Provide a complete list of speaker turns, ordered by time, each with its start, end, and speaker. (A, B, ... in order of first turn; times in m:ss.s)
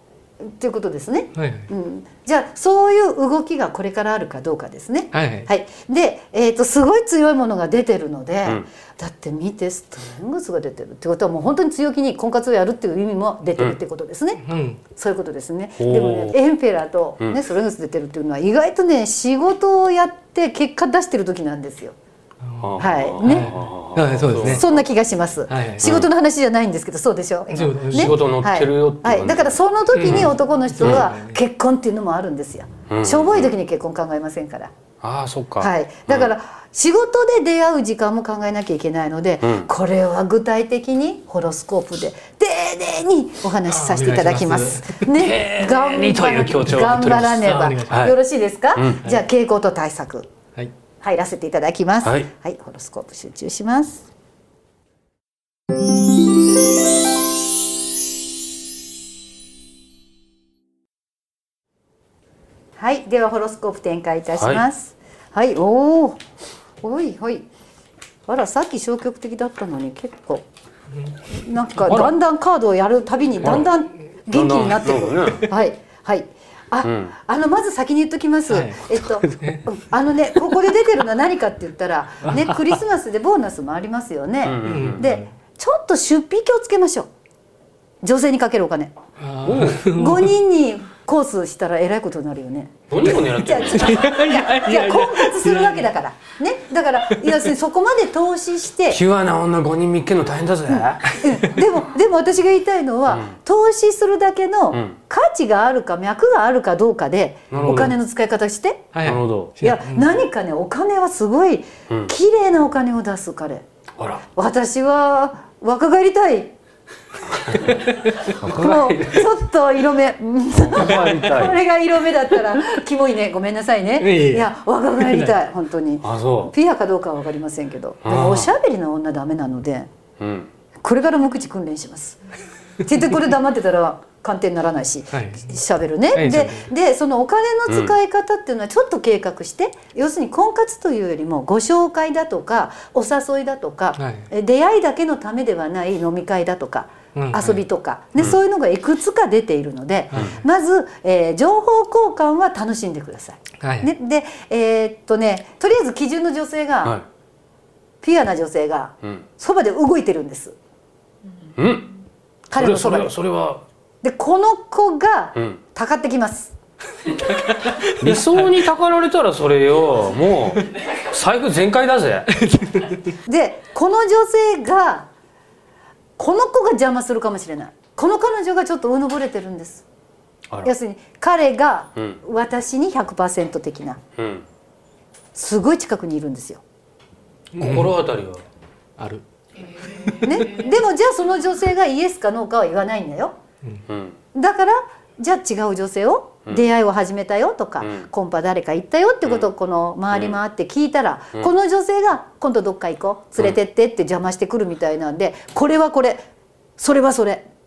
0:00.4-0:21.9 A
0:01.3-0:01.7 B
0:05.1-0:05.5 B
0:14.4-0:14.8 B
0:15.8-0:16.4 C
0:22.4-0:24.6 B
0:22.6-0:24.8 C
0:22.8-0:23.5 A
0:24.4-0:34.7 A
0:25.5-0:25.9 B
0:25.8-0:26.1 C
0:27.5-0:28.2 B
0:27.9-0:31.1 C
0:29.9-0:31.4 B
0:32.9-0:33.5 C
0:35.0-0:36.3 C
0:35.6-0:50.3 A
0:39.4-0:39.7 C
0:43.6-0:45.1 B
0:45.1-0:48.2 C
0:47.2-0:48.1 B
0:48.8-0:49.0 C
0:51.0-0:54.0 A
0:52.0-0:52.3 C
1:02.8-1:06.2 A
1:04.4-1:04.6 C
1:06.8-1:07.4 A
1:08.3-1:10.4 A
1:11.3-1:27.1 A
1:11.9-1:12.1 C
1:13.4-1:13.7 C
1:14.3-1:15.5 C
1:16.8-1:17.1 C
1:18.5-1:19.7 B
1:22.3-1:22.7 B
1:24.4-1:25.1 C
1:24.6-1:25.3 B
1:28.0-1:28.9 A
1:29.2-1:30.3 B
1:29.4-1:29.8 C
1:29.8-1:39.0 A
1:32.9-1:34.1 C
1:33.7-1:35.9 B
1:38.9-1:41.2 C
1:41.1-1:48.9 A
1:43.1-1:43.3 C
1:47.5-1:48.0 C
1:48.9-1:50.1 B
1:49.0-1:49.5 C
1:49.6-1:53.6 A
1:54.0-1:54.2 C
1:54.4-1:56.5 A
1:57.4-1:59.3 C
1:58.2-2:09.9 A
2:00.5-2:01.6 C
2:04.0-2:05.3 B
2:06.0-2:06.5 C
2:08.0-2:08.5 C
2:10.2-2:10.5 C
2:10.8-2:12.2 A
2:12.8-2:37.0 A
2:15.1-2:15.5 B
2:16.1-2:16.7 B
2:17.7-2:17.9 C
2:24.0-2:24.3 B
2:27.2-2:27.6 B
2:30.1-2:30.4 B
2:33.6-2:33.9 B
2:38.0-2:40.6 A
2:41.5-2:41.9 C
2:42.5-2:43.2 A
2:42.5-2:43.6 C
2:44.0-2:46.5 A
2:47.5-2:48.3 B
2:47.8-2:52.4 C
2:52.4-2:52.9 B
2:53.2-2:55.1 A
2:56.2-2:59.8 A
3:00.6-3:04.0 A
3:04.2-3:04.4 C
3:05.3-3:06.6 A
3:07.6-3:08.4 C
3:07.6-3:08.0 B
3:09.0-3:09.2 B
3:10.0-3:10.3 B
3:10.2-3:13.4 A
3:13.9-3:14.2 C
3:14.3-3:26.2 A
3:17.8-3:18.0 C
3:19.2-3:19.5 C
3:26.8-3:27.4 A